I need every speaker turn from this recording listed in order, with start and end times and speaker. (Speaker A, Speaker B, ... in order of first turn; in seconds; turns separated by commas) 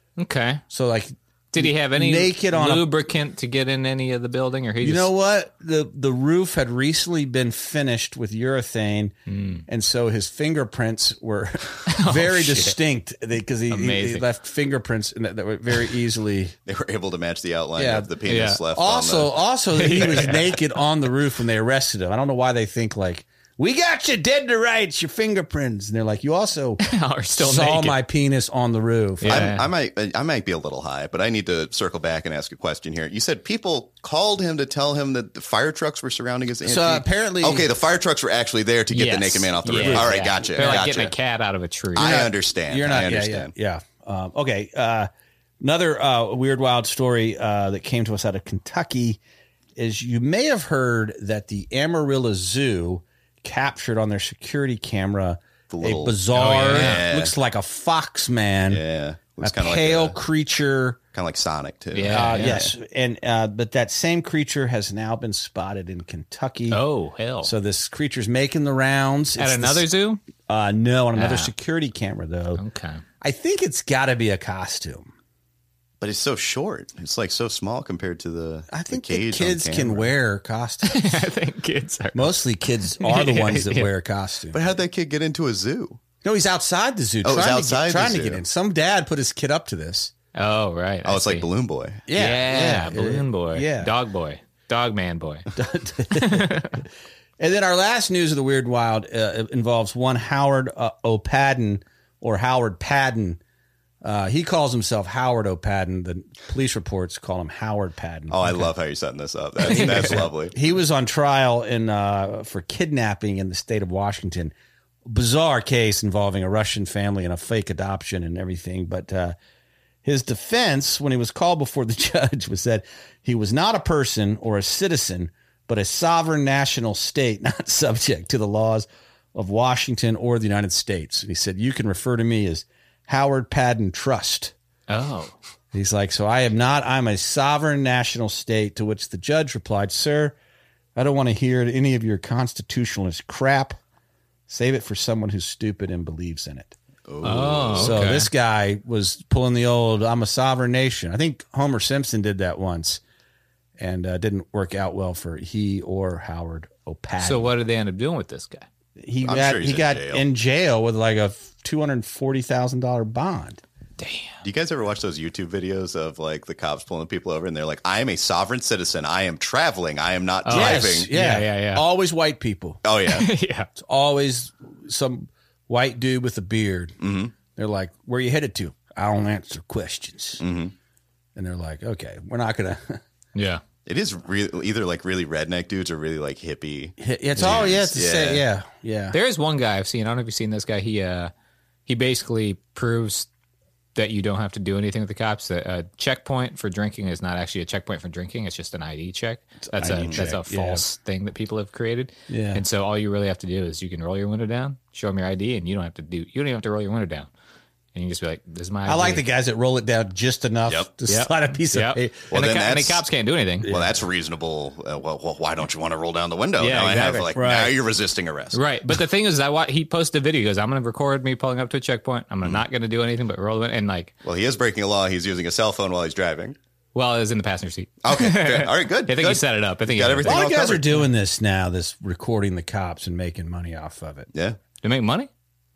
Speaker A: 0.2-0.6, Speaker B: 0.7-2.9, Speaker A: 1.5-5.1, Speaker B: 4.8-9.2, Speaker A: 9.3-9.7, Speaker B: 9.7-16.6, Speaker A: 11.9-12.8, Speaker A: 13.7-14.2, Speaker C: 16.7-19.3, Speaker B: 17.8-18.1, Speaker A: 18.2-18.6, Speaker B: 18.7-26.8, Speaker A: 19.8-20.6, Speaker C: 20.0-20.4, Speaker A: 26.8-28.0, Speaker B: 27.4-29.5, Speaker A: 29.2-29.7, Speaker C: 29.3-41.1, Speaker B: 36.6-37.7, Speaker A: 38.9-42.1, Speaker B: 39.7-40.7, Speaker C: 41.9-43.5, Speaker B: 42.0-45.1, Speaker B: 45.6-49.2, Speaker B: 49.8-58.8, Speaker C: 55.7-57.4, Speaker A: 56.3-57.0, Speaker C: 58.7-60.1, Speaker B: 59.4-61.0, Speaker C: 61.1-62.7, Speaker A: 61.9-62.7, Speaker B: 62.1-66.8, Speaker A: 66.7-67.5, Speaker B: 67.4-69.9, Speaker A: 69.4-70.2, Speaker B: 70.4-72.6, Speaker A: 71.2-71.5, Speaker A: 72.6-73.0, Speaker B: 73.2-75.1, Speaker C: 76.0-80.1, Speaker B: 78.7-81.3, Speaker A: 80.8-82.4, Speaker B: 82.1-84.8, Speaker A: 82.9-83.9, Speaker C: 84.5-86.0, Speaker B: 86.2-90.1, Speaker C: 87.2-88.4, Speaker A: 90.3-91.5, Speaker C: 91.0-92.1, Speaker B: 92.1-93.9, Speaker A: 92.1-95.5, Speaker B: 95.6-96.8, Speaker A: 96.1-96.8, Speaker B: 97.4-103.4, Speaker B: 104.0-108.7, Speaker C: 108.3-110.5, Speaker B: 109.6-114.5, Speaker A: 109.7-110.3, Speaker B: 115.1-119.4, Speaker B: 120.0-134.5, Speaker A: 134.9-135.3, Speaker B: 135.7-140.3, Speaker B: 141.0-143.8, Speaker B: 144.5-146.8, Speaker C: 147.1-148.1, Speaker A: 147.2-148.3, Speaker B: 147.8-153.0, Speaker B: 153.8-157.5, Speaker A: 157.2-158.7, Speaker B: 159.0-163.6, Speaker C: 159.2-160.2, Speaker A: 164.0-164.4, Speaker C: 164.4-171.1, Speaker A: 170.5-171.8, Speaker B: 170.5-172.8, Speaker C: 172.8-173.3, Speaker A: 173.1-173.7, Speaker B: 173.8-180.4, Speaker C: 177.0-177.3, Speaker C: 180.4-180.7, Speaker B: 181.4-183.0, Speaker A: 183.3-183.6, Speaker C: 183.9-188.4, Speaker B: 187.0-189.2, Speaker A: 189.1-191.3, Speaker A: 191.9-193.3, Speaker A: 193.9-207.3, Speaker B: 199.7-200.8, Speaker B: 202.3-202.6, Speaker A: 207.9-209.2, Speaker B: 208.9-212.3, Speaker A: 211.1-213.7, Speaker C: 212.3-213.1, Speaker C: 213.7-218.6, Speaker A: 216.6-217.3, Speaker B: 217.3-217.7, Speaker A: 218.5-224.1, Speaker C: 224.2-226.6, Speaker A: 226.9-230.4, Speaker C: 228.0-231.1, Speaker B: 230.2-234.3, Speaker C: 234.3-234.6, Speaker A: 234.8-235.3